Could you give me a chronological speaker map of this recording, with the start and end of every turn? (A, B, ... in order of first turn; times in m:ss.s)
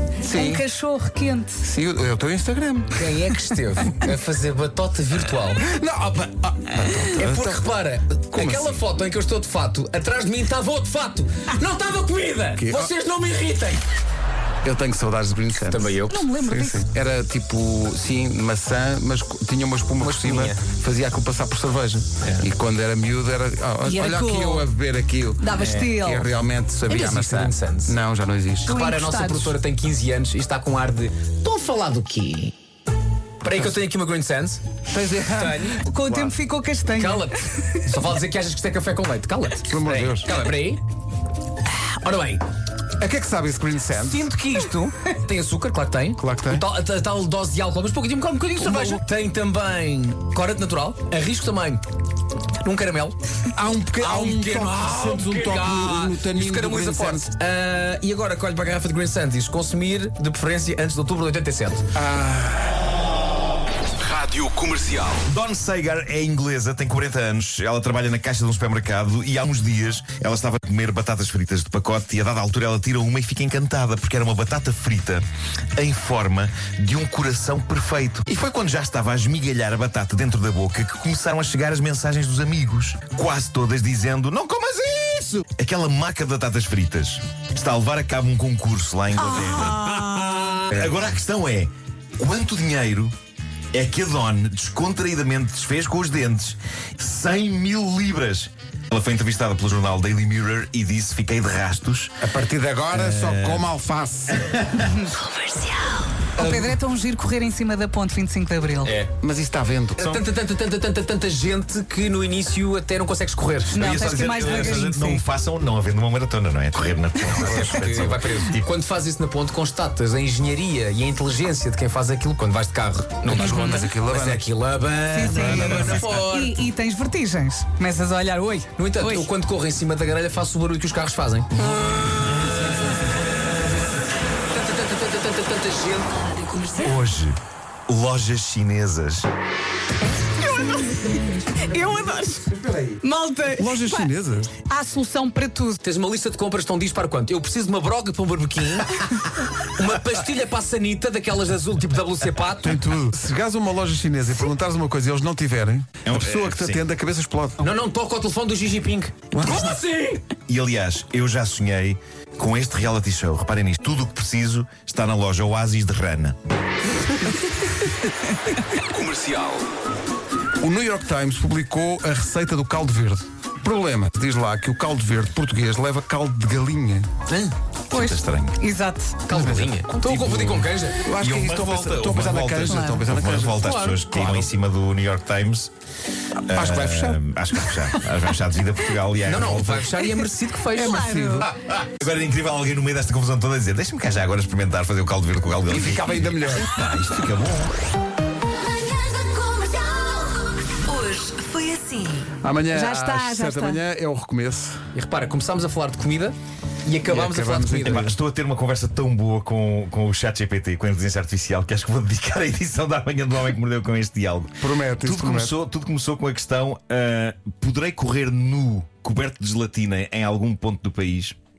0:00.2-0:01.7 A
0:00.2-0:00.6 B
0:01.6-0:03.6 B
0:02.9-0:05.6 C
0:05.5-0:07.7 B
0:07.0-0:13.8 C
0:08.3-0:08.8 B
0:12.6-0:12.9 B
0:14.6-0:28.7 B
0:15.7-0:16.2 C
0:16.1-0:16.8 A
0:20.0-0:20.6 C
0:22.2-0:22.5 C
0:23.8-0:24.7 A
0:25.4-0:26.3 A
0:25.6-0:25.9 C
0:26.9-0:28.0 C
0:28.6-0:32.5 C
0:28.7-0:29.6 A
0:33.4-0:34.6 C
0:34.9-0:35.7 B
0:35.3-0:36.3 C
0:35.8-0:37.7 A
0:37.0-0:40.8 C
0:39.7-0:40.3 B
0:42.0-0:42.4 C
0:43.0-0:44.2 B
0:44.0-0:51.8 C
0:46.2-0:46.6 B
0:48.6-0:49.0 B
0:52.6-0:53.2 C
0:53.6-0:57.3 B
0:54.0-1:01.9 C
1:02.0-1:02.6 B
1:04.1-1:05.0 C
1:05.2-1:15.2 D
1:15.8-1:33.1 D
1:33.7-1:42.2 D
1:42.2-1:44.4 B
1:42.9-1:43.7 D
1:44.4-1:44.8 D
1:44.7-1:49.0 A
1:48.8-1:49.1 C
1:49.2-1:50.1 B
1:50.0-1:54.8 C
1:53.7-1:55.2 A
1:53.8-1:58.7 D
1:57.4-2:06.7 C
2:03.3-2:04.4 B
2:03.3-2:03.9 A
2:05.1-2:09.3 A
2:05.3-2:05.8 B
2:08.8-2:11.8 C
2:12.5-2:13.0 B
2:14.5-2:16.7 C
2:16.8-2:17.4 D
2:17.9-2:19.3 D
2:20.4-2:24.1 A
2:22.5-2:23.0 B
2:23.6-2:24.5 B
2:24.7-2:25.8 A
2:25.8-2:32.8 C
2:32.6-2:37.6 B
2:36.0-2:36.8 D
2:37.6-2:40.2 C
2:39.3-2:39.7 B
2:40.5-2:46.4 D
2:48.9-2:49.6 C
2:50.6-2:57.1 B
2:57.3-2:57.5 C
2:57.9-2:58.6 D
2:57.9-2:59.2 A
2:59.3-3:01.0 C
2:59.3-3:00.2 B
3:00.1-3:00.6 D
3:01.0-3:04.5 B
3:01.2-3:05.7 D
3:02.7-3:03.0 A
3:03.6-3:04.0 C
3:06.5-3:10.0 D
3:06.5-3:07.2 B
3:09.2-3:11.1 C
3:10.7-3:11.5 B
3:10.8-3:11.5 A
3:11.4-3:17.7 D
3:15.7-3:16.8 B
3:18.6-3:22.2 E
3:18.9-3:20.4 A
3:20.9-3:23.8 A
3:22.4-3:24.8 B
3:24.9-3:28.1 C
3:27.1-3:28.1 B
3:27.8-3:41.4 D
3:34.6-3:35.5 B